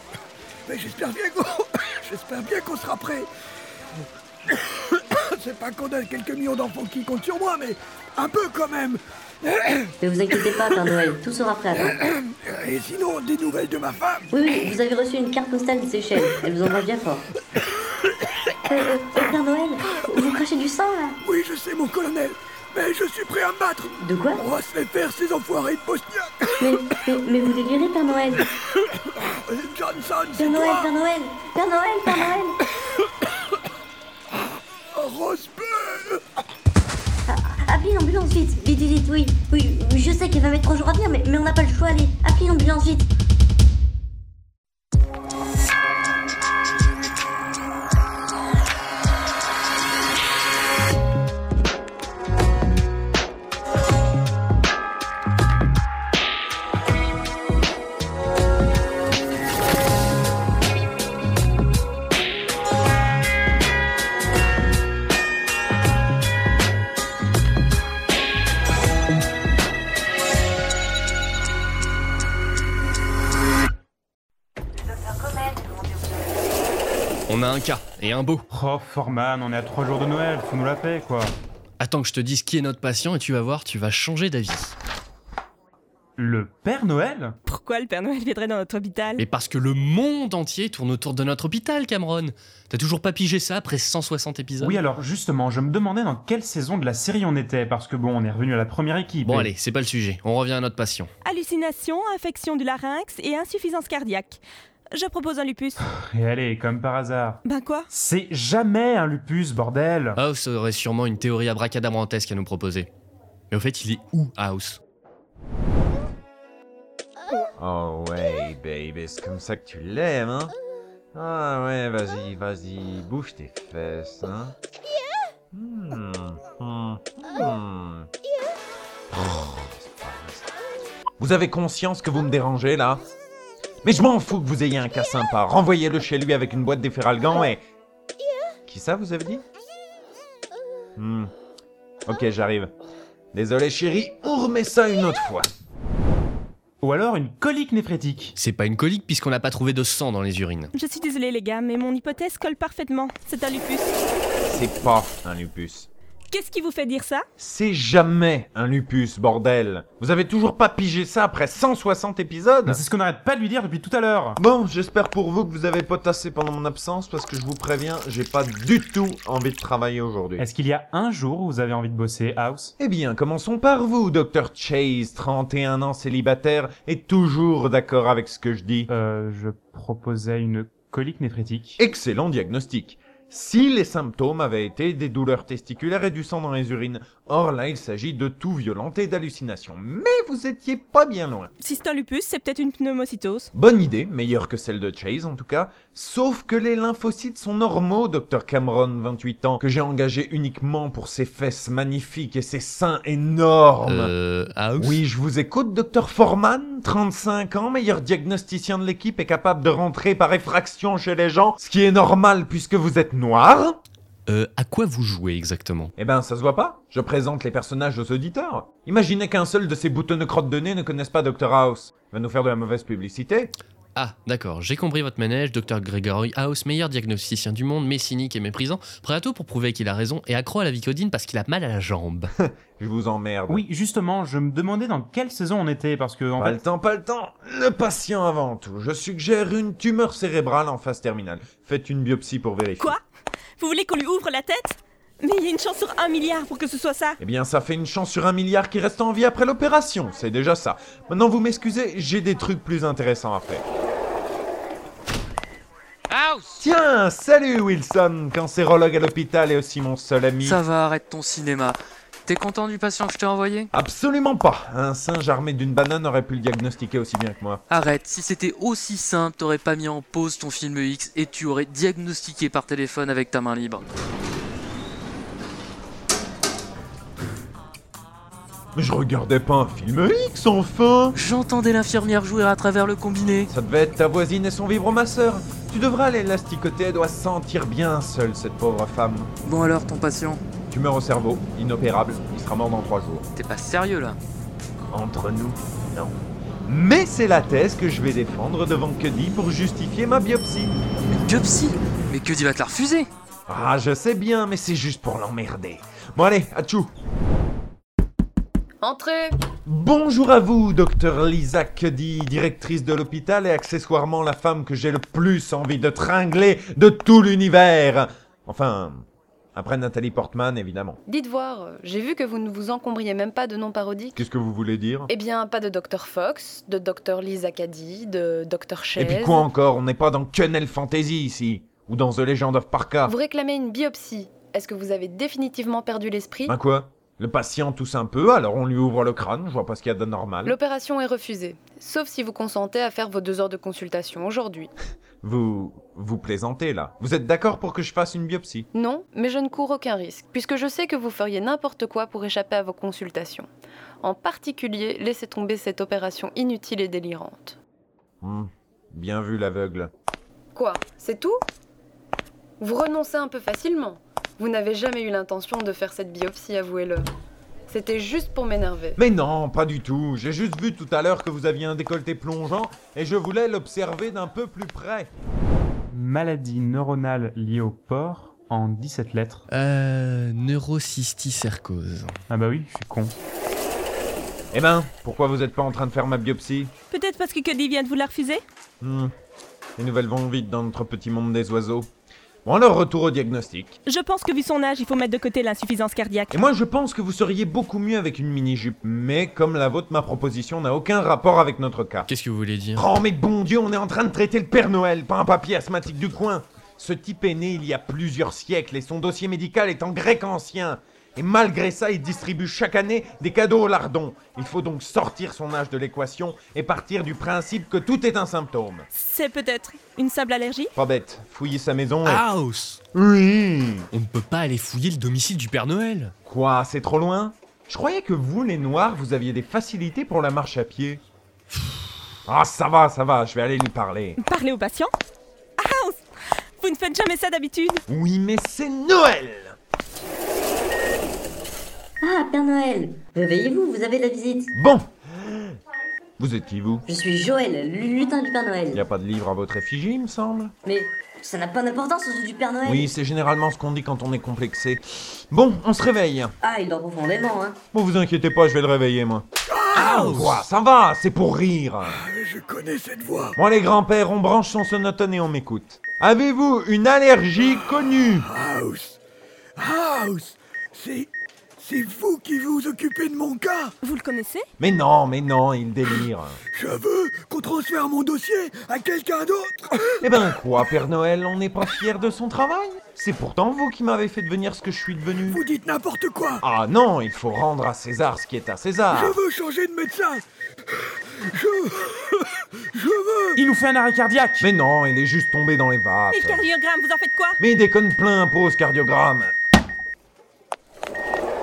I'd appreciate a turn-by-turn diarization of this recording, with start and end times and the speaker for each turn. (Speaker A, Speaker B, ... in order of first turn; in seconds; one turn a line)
Speaker A: 0.7-3.3
Speaker A: 4.5-11.0
Speaker B: 10.0-12.0
Speaker A: 11.8-14.3
Speaker B: 14.3-17.3
Speaker B: 18.7-21.2
Speaker A: 21.2-27.0
Speaker B: 24.0-24.4
Speaker B: 26.6-28.5
Speaker A: 28.8-30.9
Speaker B: 30.4-32.6
Speaker A: 34.9-36.2
Speaker B: 37.3-43.1
Speaker C: 77.3-78.5
Speaker D: 78.5-81.4
Speaker C: 81.8-84.8
Speaker D: 86.2-87.3
Speaker E: 87.5-89.2
Speaker C: 89.2-94.8
Speaker D: 94.6-99.5
Speaker C: 99.2-101.1
Speaker E: 101.2-104.4
Speaker E: 104.9-105.8
Speaker D: 106.0-110.2
Speaker E: 107.5-107.9
Speaker C: 110.2-112.9
Speaker C: 113.5-114.8
Speaker F: 117.6-120.5
Speaker F: 121.1-124.5
Speaker F: 125.5-128.1
Speaker F: 129.1-130.5
Speaker F: 131.2-133.0
Speaker F: 133.8-137.6
Speaker F: 138.7-139.4
Speaker F: 141.0-141.3
Speaker F: 142.1-142.7
Speaker F: 143.3-145.5
Speaker D: 146.8-148.3
Speaker C: 148.3-150.7
Speaker E: 150.7-154.0
Speaker F: 154.4-155.9
Speaker E: 156.3-157.2
Speaker F: 157.4-162.8
Speaker D: 162.7-164.4
Speaker F: 164.4-170.4
Speaker D: 170.4-172.7
Speaker F: 172.8-178.9
Speaker D: 178.9-181.8
Speaker F: 181.8-191.5
Speaker E: 191.6-193.5
Speaker F: 193.5-204.1
Speaker C: 203.8-205.0
Speaker F: 204.8-213.8
Speaker C: 214.3-215.9
Speaker F: 216.0-223.5
Speaker C: 223.9-232.3
Speaker F: 232.4-233.6
Speaker D: 233.5-236.6
Speaker F: 236.4-242.9
Speaker E: 243.6-247.2
Speaker F: 247.2-253.6
Speaker G: 256.1-256.6
Speaker F: 256.6-260.6
Speaker G: 260.4-263.7
Speaker F: 263.7-267.6
Speaker G: 267.7-273.9
Speaker F: 278.7-281.2
Speaker G: 281.1-283.5
Speaker F: 283.5-289.3
Speaker G: 289.4-290.4
Speaker F: 290.7-293.2
Speaker G: 293.4-294.2
Speaker F: 294.9-300.8
Speaker G: 301.1-303.1
Speaker F: 303.5-306.9
Speaker H: 308.8-309.4
Speaker F: 309.6-319.0
Speaker F: 319.5-321.0
Speaker H: 321.1-324.2
Speaker F: 324.1-325.1
Speaker H: 325.1-329.4
Speaker F: 328.9-333.1
Speaker H: 333.1-336.6
Speaker F: 336.5-340.6
Speaker H: 340.4-344.7
Speaker F: 345.2-348.7
Speaker H: 348.7-353.5
Speaker H: 354.0-357.6
Speaker F: 358.2-359.9
Speaker H: 360.5-361.4
Speaker H: 362.6-367.1
Speaker H: 367.7-369.0
Speaker F: 369.0-375.1
Speaker D: 375.9-379.4
Speaker C: 379.5-382.2
Speaker D: 382.3-383.1
Speaker F: 384.5-386.7
Speaker E: 386.9-388.4
Speaker F: 388.8-389.1
Speaker F: 389.8-391.9
Speaker F: 392.4-393.8
Speaker E: 393.9-396.4
Speaker F: 396.3-402.1
Speaker C: 402.1-402.8
Speaker F: 402.8-418.9
Speaker E: 418.9-420.7
Speaker F: 420.7-422.2
Speaker C: 422.0-422.8
Speaker F: 422.9-423.9
Speaker C: 423.9-426.1
Speaker F: 426.2-431.0
Speaker F: 432.2-434.2
Speaker E: 434.2-434.9
Speaker E: 435.6-436.1
Speaker E: 436.6-437.8
Speaker F: 437.9-439.6
Speaker B: 442.0-444.5
Speaker F: 444.5-445.6
Speaker F: 446.2-446.8
Speaker B: 446.9-448.8
Speaker F: 448.7-450.5
Speaker B: 450.6-452.9
Speaker F: 452.6-456.3
Speaker B: 456.4-457.6
Speaker F: 457.7-461.9
Speaker A: 459.5-460.2
Speaker C: 459.8-460.4
Speaker A: 461.9-463.4
Speaker F: 463.4-468.3
Speaker A: 468.2-469.0
Speaker A: 469.6-473.7
Speaker E: 473.8-474.4
Speaker F: 474.6-476.4
Speaker A: 476.5-480.0
Speaker F: 480.0-485.4
Speaker A: 485.3-486.4
Speaker F: 486.4-489.2
Speaker A: 488.9-490.2
Speaker A: 490.7-493.4
Speaker D: 493.4-494.5
Speaker F: 494.4-496.4
Speaker E: 496.1-497.4
Speaker F: 497.4-499.3